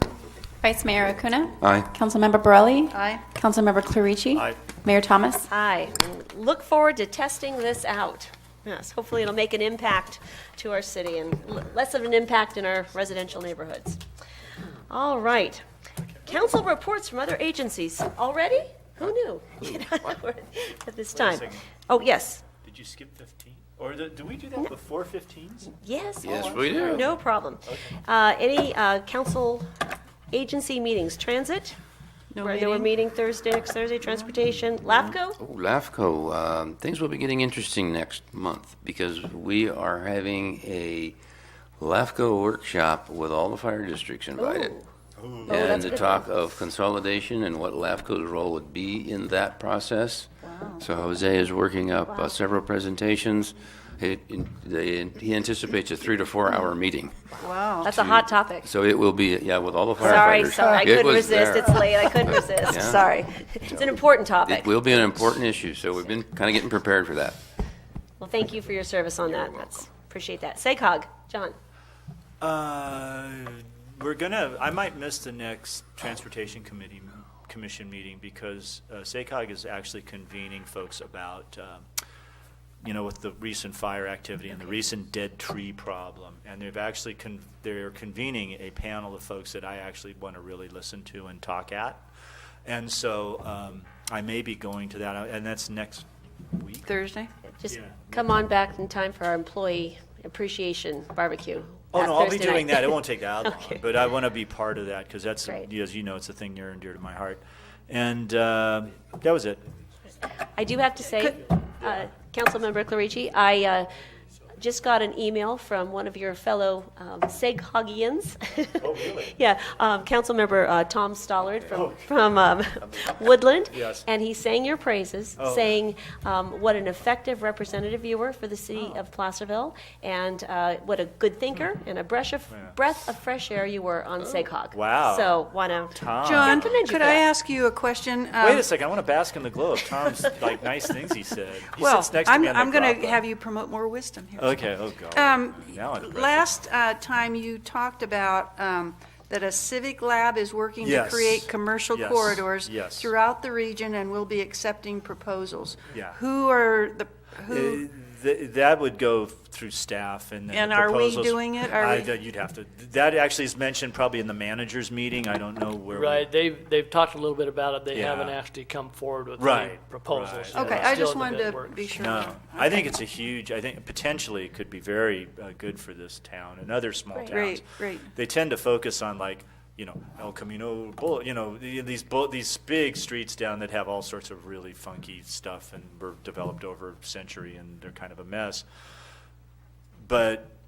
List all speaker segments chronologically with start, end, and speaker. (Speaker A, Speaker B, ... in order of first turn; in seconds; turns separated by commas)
Speaker A: 0.6-5.4, Speaker B: 1.6-1.9, Speaker C: 2.9-3.3, Speaker D: 4.3-4.7, Speaker E: 5.4-14.0, Speaker E: 14.9-15.6, Speaker E: 16.2-22.4, Speaker D: 21.1-21.7, Speaker D: 22.5-25.8, Speaker E: 25.8-29.7, Speaker B: 26.2-27.1, Speaker D: 26.7-27.1, Speaker D: 27.7-27.9, Speaker E: 30.3-31.8, Speaker C: 32.3-32.9, Speaker E: 32.4-35.4, Speaker B: 35.4-41.2, Speaker B: 41.8-44.8, Speaker E: 44.4-44.8, Speaker D: 45.2-45.9, Speaker E: 45.5-46.4, Speaker B: 45.5-57.1, Speaker C: 50.4-50.8, Speaker E: 52.1-52.3, Speaker C: 57.4-57.9, Speaker E: 57.8-58.7, Speaker B: 57.8-63.1, Speaker E: 60.0-65.3, Speaker B: 63.6-67.4, Speaker E: 68.2-71.5, Speaker D: 72.4-81.8, Speaker D: 82.8-92.0, Speaker D: 92.7-96.9, Speaker C: 96.8-97.3, Speaker D: 97.4-98.5, Speaker E: 97.6-103.8, Speaker D: 101.9-109.6, Speaker E: 110.5-113.9, Speaker E: 114.5-137.2, Speaker D: 118.8-119.3, Speaker D: 121.7-122.0, Speaker D: 123.7-124.1, Speaker D: 125.4-125.8, Speaker D: 132.5-132.8, Speaker D: 134.7-137.0, Speaker C: 136.2-138.7, Speaker D: 138.4-143.2, Speaker C: 141.8-157.8, Speaker D: 144.4-146.7, Speaker D: 150.8-153.1, Speaker D: 155.9-156.2, Speaker D: 157.5-166.3, Speaker C: 160.5-162.1, Speaker F: 165.8-172.0, Speaker D: 167.9-168.4, Speaker D: 169.4-171.0, Speaker C: 170.5-172.9, Speaker D: 172.0-188.6, Speaker E: 177.1-177.4, Speaker C: 177.3-178.1, Speaker D: 190.0-190.5